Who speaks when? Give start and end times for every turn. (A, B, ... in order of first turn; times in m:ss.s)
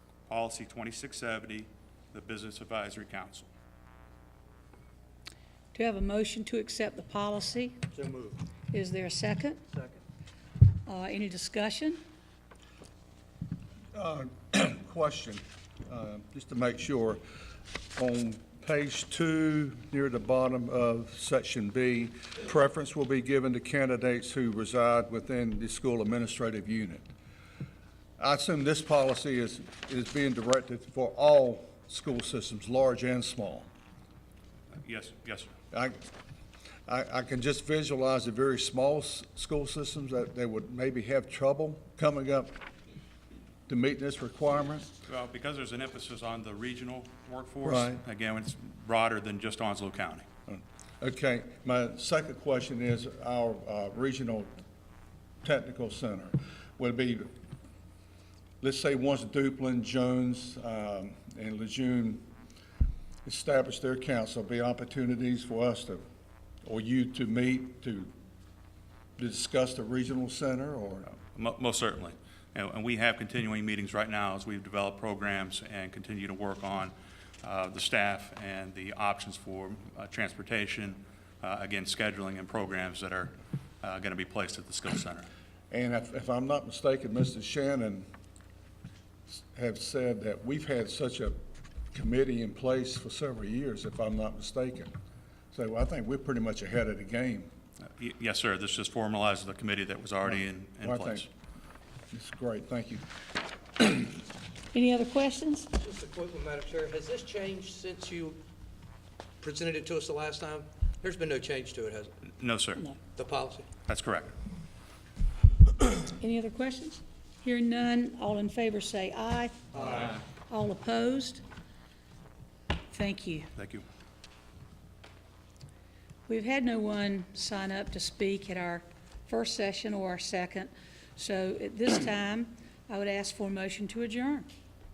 0:00.3-0:03.5 A
0:05.7-0:07.8 B
0:08.0-0:08.4 C
0:08.7-0:09.6 B
0:10.8-0:12.0 B
0:13.9-0:17.2 D
0:18.0-0:27.0 D
0:28.2-0:33.7 D
0:34.8-0:35.5 A
0:35.7-0:36.0 D
0:36.8-0:42.5 D
0:43.7-0:44.9 D
0:45.1-0:50.2 A
0:47.6-0:48.0 D
0:50.5-0:54.5 D
0:55.4-0:57.3 D
0:58.6-1:02.2 D
1:03.2-1:06.0 D
1:06.6-1:08.1 D
1:09.2-1:11.1 D
1:11.1-1:25.3 A
1:25.7-1:28.0 D
1:29.3-1:31.4 D
1:31.9-1:34.9 D
1:35.5-1:37.5 D
1:38.0-1:41.3 A
1:40.3-1:41.3 D
1:42.1-1:43.0 D
1:44.7-1:45.7 B
1:45.7-1:48.4 C
1:49.4-1:52.1 C
1:52.3-1:52.8 A
1:53.1-1:53.7 C
1:53.9-1:54.3 A
1:56.2-1:59.6 B
1:59.7-2:00.1 C
2:00.4-2:01.4 B
2:02.9-2:03.5 B
2:03.6-2:03.8 A
2:06.3-2:14.5 B